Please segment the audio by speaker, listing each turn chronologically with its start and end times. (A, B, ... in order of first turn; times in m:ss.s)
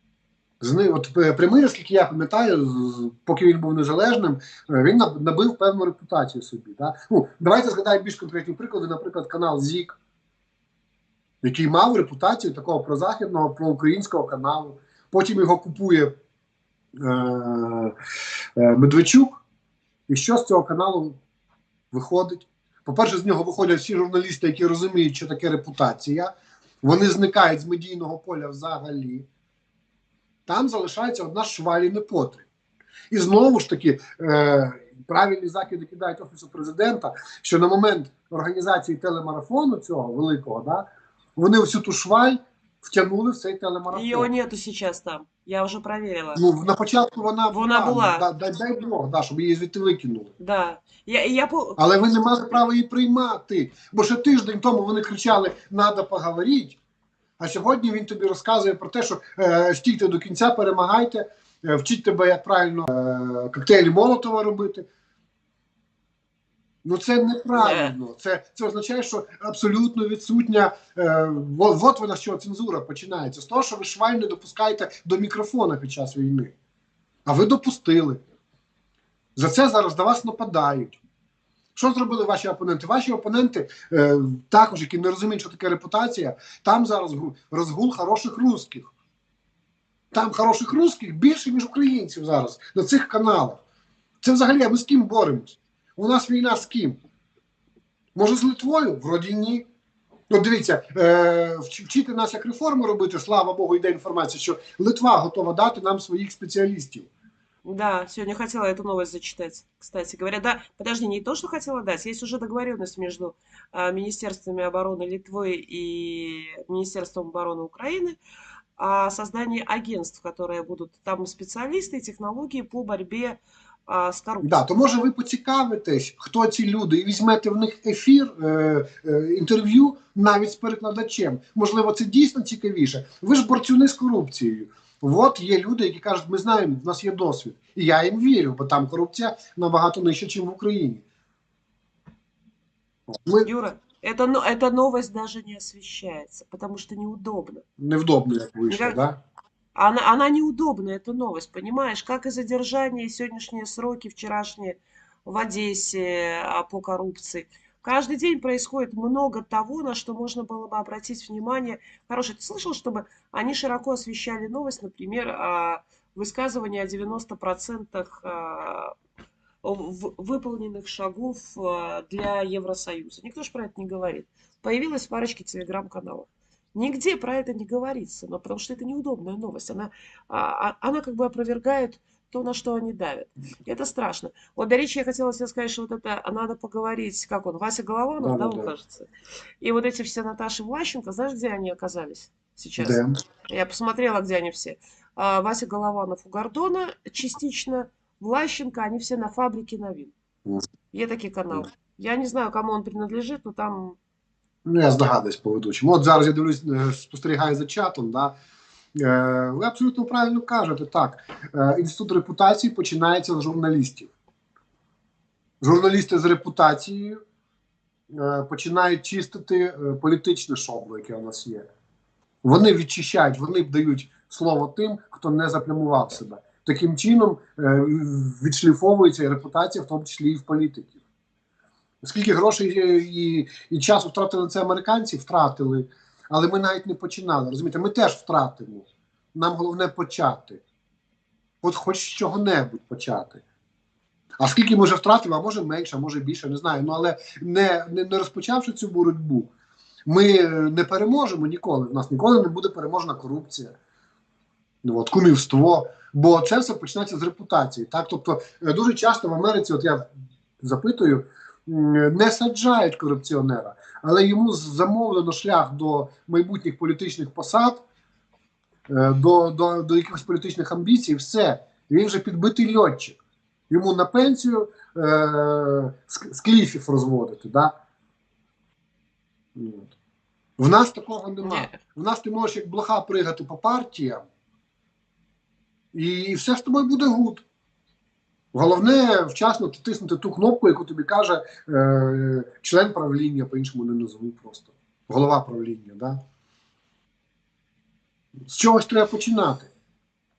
0:00.6-0:10.0 A
0:11.4-0:16.1 A
0:17.0-0:17.9 A
0:18.6-0:19.4 A
0:20.1-0:21.2 A
0:21.9-0:26.3 A
0:26.8-0:29.3 A
0:30.5-0:32.4 A
0:33.1-0:44.3 A
0:43.9-0:46.4 B
0:46.4-0:50.3 A
0:47.5-0:48.3 B
0:50.4-0:52.0 B
0:51.8-0:56.8 A
0:57.4-1:04.8 A
1:06.8-1:16.5 A
1:07.5-1:07.9 B
1:17.2-1:18.2 A
1:19.4-1:21.0 A
1:21.7-1:28.9 A
1:30.1-1:33.6 A
1:34.2-1:37.0 A
1:38.2-1:39.6 A
1:40.3-1:47.1 A
1:47.6-1:58.2 B
1:58.8-2:04.6 B
2:04.4-2:21.0 A
2:23.1-2:23.5 A
2:23.4-2:27.6 B
2:27.8-2:29.2 A
2:28.7-2:29.0 B
2:29.7-2:48.9 B
2:49.6-3:09.1 B
3:08.2-3:08.7 A
3:09.6-3:20.1 B
3:12.8-3:13.1 A
3:20.9-3:24.0 B
3:24.6-3:28.3 A
3:29.0-3:34.1 A
3:35.6-3:37.2 A
3:38.1-3:41.7 A
3:42.4-3:51.0 A
3:52.0-4:00.6 A
4:01.6-4:03.4 A
4:04.4-4:09.5 A
4:10.0-4:13.7 A
4:14.8-4:20.1 A
4:20.6-4:27.8 A
4:28.9-4:33.2 A
4:33.7-4:37.7 A
4:39.6-4:39.9 A
4:40.6-4:44.2 A
4:41.4-4:41.8 B
4:45.9-4:47.4 A
4:48.5-4:56.2 A
4:58.5-4:59.7 A